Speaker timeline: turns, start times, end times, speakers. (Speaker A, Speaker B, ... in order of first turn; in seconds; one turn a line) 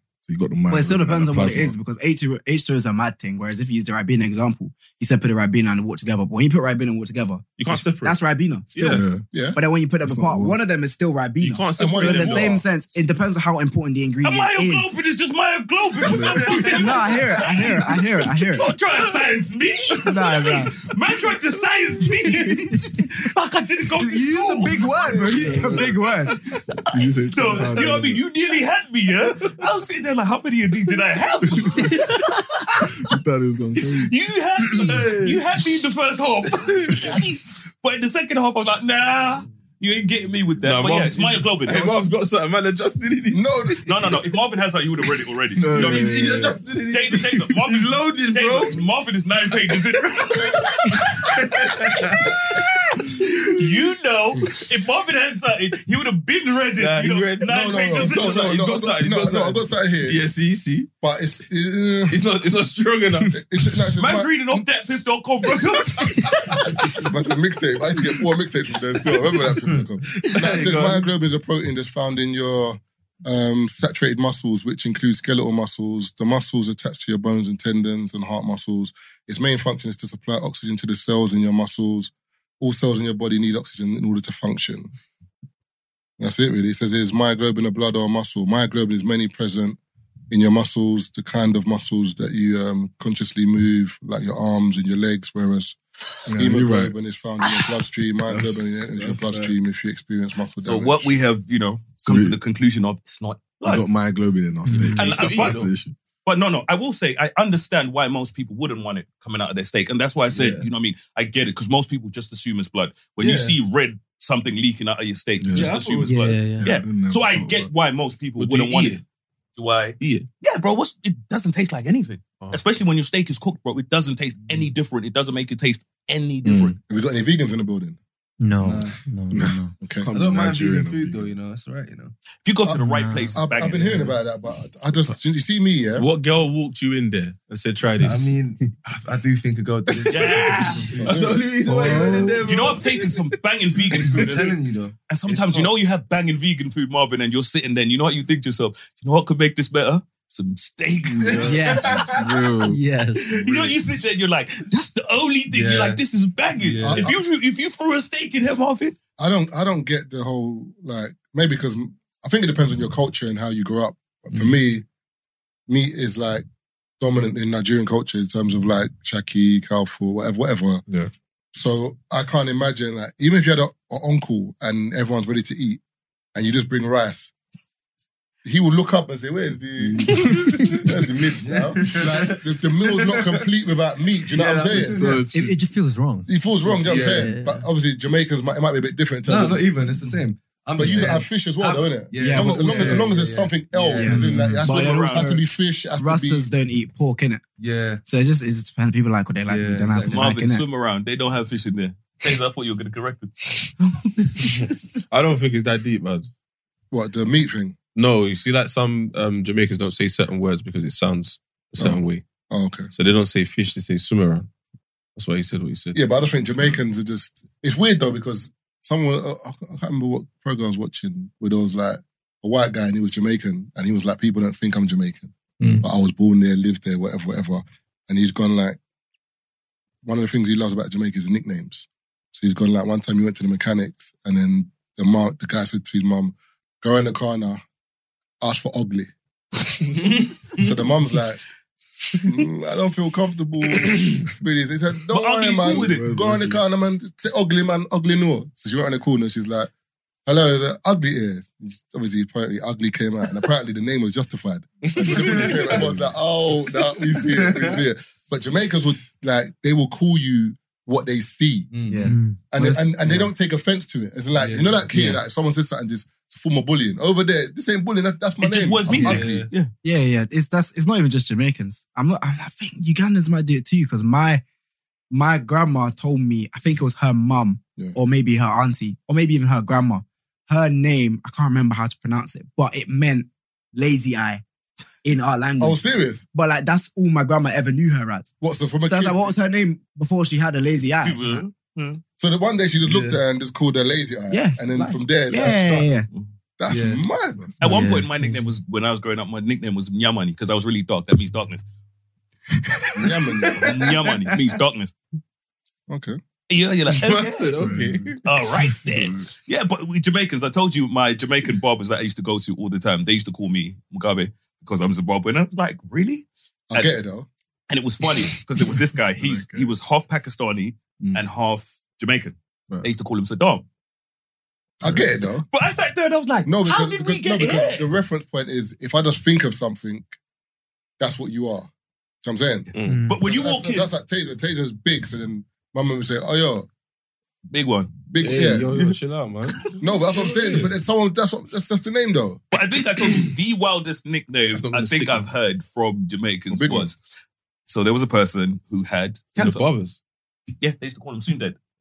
Speaker A: 0.2-1.8
Speaker B: 0.7-15.0
Speaker C: 7.6-8.2
Speaker C: 8.7-9.1
Speaker A: 8.9-9.2
Speaker D: 9.3-9.6
Speaker A: 10.0-10.6
Speaker C: 11.4-12.6
Speaker D: 11.8-12.6
Speaker E: 14.2-26.0
Speaker A: 16.0-16.8
Speaker B: 16.6-18.7
Speaker B: 20.0-20.7
Speaker B: 22.3-22.6
Speaker B: 24.0-26.4
Speaker E: 26.5-33.1
Speaker A: 26.9-28.2
Speaker A: 31.6-31.9
Speaker A: 33.0-34.1
Speaker E: 33.9-42.0
Speaker C: 34.8-35.4
Speaker C: 36.7-37.1
Speaker C: 40.6-43.9
Speaker D: 43.3-43.8
Speaker E: 43.8-46.4
Speaker A: 45.6-46.6
Speaker C: 45.8-48.9
Speaker E: 46.9-52.3
Speaker C: 51.6-52.3
Speaker E: 53.4-58.4
Speaker C: 56.8-60.9
Speaker D: 57.4-60.2
Speaker D: 61.0-62.2
Speaker C: 62.1-63.4
Speaker D: 63.3-64.7
Speaker E: 64.0-67.0
Speaker D: 66.5-84.9
Speaker C: 70.0-71.1
Speaker D: 86.2-89.8
Speaker D: 90.3-101.0
Speaker A: 96.2-96.9
Speaker A: 98.3-99.4
Speaker E: 100.6-103.9
Speaker A: 102.0-102.4
Speaker A: 103.6-106.0
Speaker F: 104.6-105.1
Speaker E: 104.7-105.7
Speaker C: 105.1-105.7
Speaker E: 106.2-119.0
Speaker G: 113.2-113.5
Speaker A: 115.4-115.7
Speaker G: 115.5-116.2
Speaker C: 115.7-116.3
Speaker F: 116.1-116.8
Speaker A: 116.6-117.7
Speaker C: 118.4-119.0
Speaker E: 119.5-126.8
Speaker C: 120.0-120.2
Speaker A: 126.4-126.8
Speaker D: 126.9-128.0
Speaker F: 128.4-129.8
Speaker G: 128.6-129.0
Speaker A: 129.3-131.3
Speaker D: 129.8-130.1
Speaker G: 130.1-132.1
Speaker E: 132.4-134.1
Speaker D: 132.6-136.1
Speaker F: 132.7-133.4
Speaker C: 135.9-138.3
Speaker G: 138.0-143.1
Speaker E: 140.1-141.1
Speaker D: 141.0-141.5
Speaker C: 141.0-142.5
Speaker A: 141.6-142.4
Speaker E: 142.4-152.1
Speaker G: 143.9-145.7
Speaker G: 151.2-152.4
Speaker A: 151.2-152.8
Speaker F: 151.4-152.1
Speaker F: 152.7-153.6
Speaker E: 153.2-158.9
Speaker G: 155.5-156.0
Speaker G: 156.6-157.1
Speaker D: 156.8-157.2
Speaker D: 159.2-164.8
Speaker D: 165.7-166.4
Speaker D: 167.0-170.8
Speaker D: 171.5-175.8
Speaker D: 176.3-177.3
Speaker D: 178.4-185.0
Speaker A: 179.8-180.8
Speaker G: 181.4-183.3
Speaker G: 184.3-185.3
Speaker A: 184.8-185.6
Speaker F: 185.3-186.3
Speaker D: 186.3-189.7
Speaker G: 186.6-187.3
Speaker F: 186.8-187.7
Speaker G: 189.2-194.6
Speaker D: 190.8-196.5
Speaker B: 192.2-193.2
Speaker B: 193.9-195.4
Speaker F: 194.1-194.6
Speaker E: 194.6-195.4
Speaker B: 196.0-197.4
Speaker G: 197.6-198.0
Speaker B: 198.0-200.6
Speaker G: 199.4-200.2
Speaker E: 200.1-205.0
Speaker C: 205.1-206.3
Speaker D: 206.9-207.8
Speaker C: 207.9-212.2
Speaker D: 211.8-212.9
Speaker C: 212.9-214.5
Speaker C: 215.2-216.0
Speaker D: 215.9-228.8
Speaker A: 225.6-225.8
Speaker D: 230.0-237.6
Speaker D: 238.4-239.1
Speaker D: 240.5-241.4
Speaker D: 242.2-249.7
Speaker E: 245.1-246.0
Speaker A: 245.6-246.6
Speaker D: 250.2-261.7
Speaker G: 255.0-255.9
Speaker C: 255.1-255.5
Speaker G: 256.8-257.8
Speaker G: 261.7-262.2
Speaker B: 261.9-263.3
Speaker F: 262.1-262.4
Speaker D: 262.5-269.4
Speaker G: 264.4-265.1
Speaker B: 264.9-265.2
Speaker E: 268.4-269.7
Speaker G: 268.9-269.5
Speaker B: 269.8-274.4
Speaker B: 275.1-284.4
Speaker B: 285.0-285.8
Speaker D: 285.6-286.2
Speaker B: 286.3-288.3
Speaker D: 288.4-289.4
Speaker B: 288.9-291.4
Speaker E: 291.0-292.0
Speaker D: 292.2-295.9
Speaker G: 292.8-293.2
Speaker B: 294.3-296.1
Speaker D: 296.6-297.6
Speaker G: 296.7-297.1
Speaker F: 297.6-298.3
Speaker E: 297.6-301.6
Speaker D: 303.0-303.9
Speaker G: 303.4-304.4
Speaker E: 303.6-304.9
Speaker D: 305.9-306.2
Speaker E: 306.5-307.5
Speaker C: 307.0-308.2
Speaker A: 307.6-309.3
Speaker E: 308.2-316.9
Speaker D: 316.7-317.3
Speaker E: 317.7-323.6
Speaker A: 318.9-319.7
Speaker D: 324.8-325.4
Speaker A: 324.8-325.1
Speaker E: 325.5-327.9
Speaker D: 326.4-330.1
Speaker D: 331.0-331.7
Speaker D: 332.2-336.7
Speaker C: 332.7-333.1
Speaker F: 332.9-333.2
Speaker E: 333.1-333.9
Speaker E: 337.5-337.9
Speaker D: 338.1-338.9
Speaker C: 338.2-340.7
Speaker D: 339.8-342.4
Speaker E: 342.5-347.0
Speaker C: 344.5-345.2
Speaker D: 346.5-346.9
Speaker E: 347.7-349.6
Speaker C: 349.4-350.0
Speaker E: 350.6-351.6